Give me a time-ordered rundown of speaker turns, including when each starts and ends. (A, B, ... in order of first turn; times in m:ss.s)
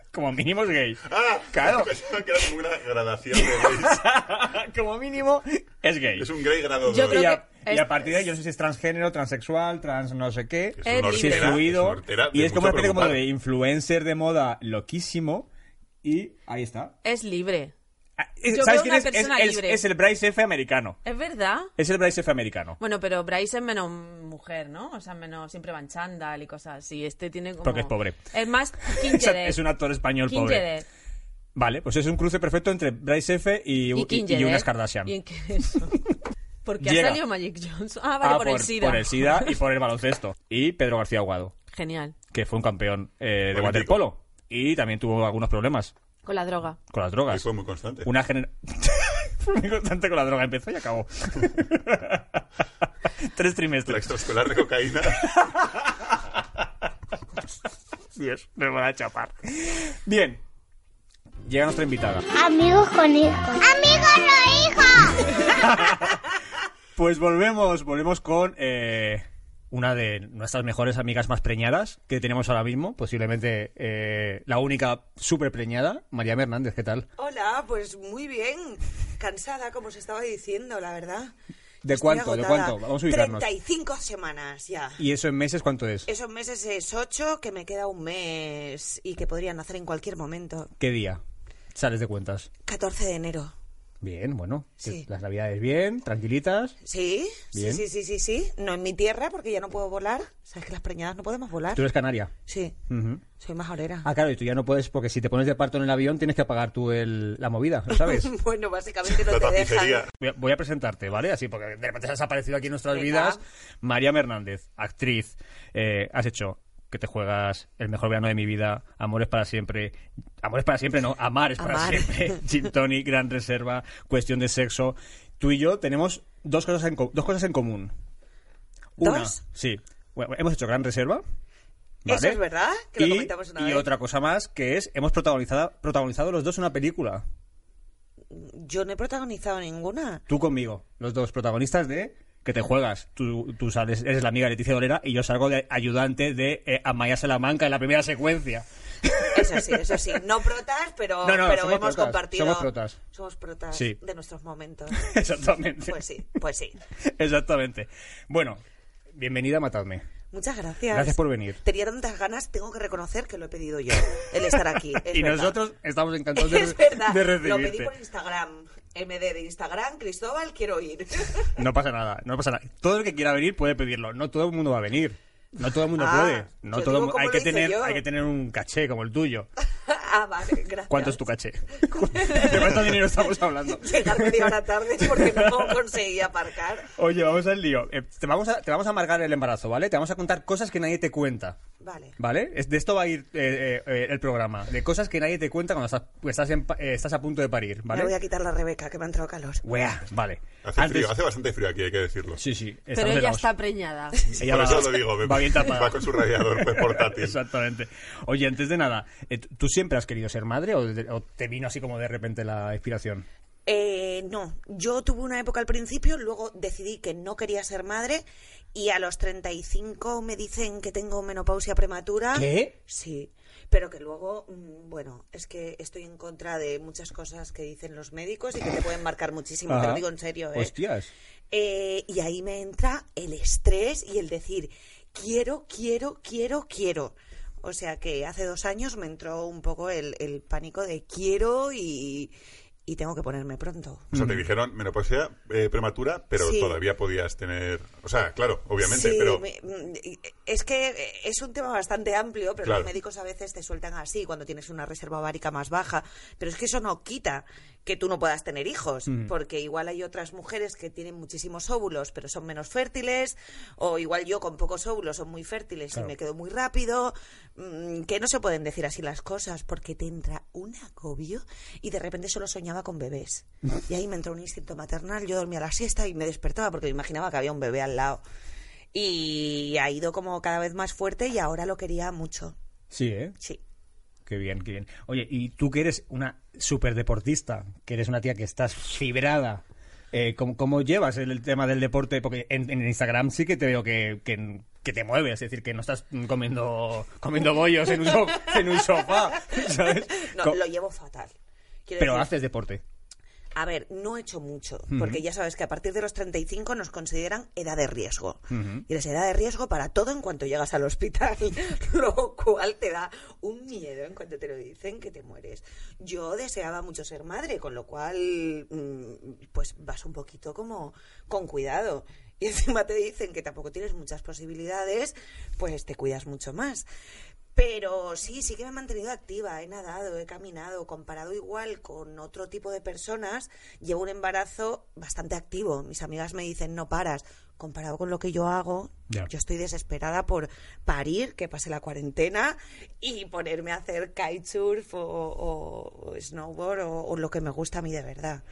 0:00.1-0:01.9 A
0:01.0-0:04.0 B
0:03.3-0:06.3 A
0:06.2-0:07.4 B
0:06.8-0:08.2 C
0:07.0-0:15.5 A
0:10.8-0:13.2 B
0:10.8-0:11.7 C
0:16.0-0:16.9 A
0:17.0-0:17.7 C
0:18.2-0:21.0 A
0:18.5-0:19.8 C
0:21.0-0:21.7 C
0:21.8-0:22.8 A
0:22.8-0:30.8 C
0:27.6-0:28.2 A
0:28.9-0:30.7 A
0:31.6-0:35.1 A
0:33.9-0:36.0 C
0:36.6-0:39.6 C
0:36.8-0:37.2 A
0:38.2-0:41.6 A
0:41.7-0:42.2 C
0:42.3-0:45.9 A
0:43.5-0:44.1 B
0:46.2-0:46.8 C
0:46.9-0:47.5 A
0:47.3-0:48.1 B
0:48.0-0:52.4 A
0:53.2-0:54.2 A
0:53.8-0:55.4 B
0:55.2-0:55.9 A
0:58.2-1:00.4 A
1:01.5-1:02.2 A
1:02.4-1:05.6 D
1:05.2-1:06.2 A
1:07.0-1:17.1 A
1:17.2-1:21.3 E
1:21.8-1:23.5 A
1:21.9-1:25.0 E
1:25.0-1:26.1 A
1:26.1-1:30.7 E
1:30.8-1:31.2 A
1:31.7-1:32.5 A
1:32.6-1:33.5 E
1:34.0-1:36.8 A
1:34.8-1:35.1 E
1:36.8-1:41.9 E
1:37.5-1:37.8 A
1:41.8-1:42.3 A
1:42.5-1:44.1 E
1:42.9-1:43.2 A
1:44.0-1:48.4 A
1:47.9-1:50.1 E
1:49.2-1:50.1 B
1:50.2-2:07.9 A
1:52.9-1:53.4 E
2:01.6-2:02.4 E
2:09.0-2:11.2 A
2:09.0-2:09.4 E
2:12.1-2:12.4 A
2:12.1-2:13.9 E
2:13.0-2:17.2 A
2:18.3-2:20.2 E
2:20.3-2:30.2 A
2:29.3-2:35.1 E
2:31.2-2:33.0 A
2:33.7-2:34.0 A
2:34.9-2:36.0 A
2:35.8-2:36.8 E
2:37.0-2:38.6 A
2:39.2-2:40.0 A
2:40.3-2:45.6 E
2:40.9-2:41.6 A
2:45.0-2:47.9 A
2:46.4-2:51.6 E
2:51.6-2:59.5 A
2:55.9-2:58.0 E
2:59.9-3:01.2 E
3:00.9-3:05.8 A
3:01.8-3:06.9 E
3:07.0-3:11.6 A
3:11.8-3:12.2 E
3:12.2-3:18.1 A
3:17.9-3:19.6 E
3:19.6-3:21.2 A
3:20.6-3:22.4 B
3:22.4-3:23.5 A
3:22.9-3:24.4 C
3:24.4-3:33.3 A
3:24.4-3:27.4 B
3:33.7-3:50.8 E
3:42.3-3:42.7 A
3:49.7-3:51.1 A
3:51.5-4:02.3 E
4:02.9-4:04.1 E
4:04.1-4:04.4 A
4:04.1-4:09.4 B
4:06.4-4:06.8 E
4:08.8-4:38.2 E
4:12.6-4:12.9 B
4:19.1-4:19.3 A
4:38.9-4:42.6 E
4:42.9-4:43.4 A
4:44.3-5:00.6 A
4:58.1-5:01.3 E
5:01.9-5:02.3 E
5:02.0-5:02.8 A
5:03.6-5:26.9 E
5:04.9-5:05.2 A
5:08.5-5:08.8 A
5:27.6-5:48.4 E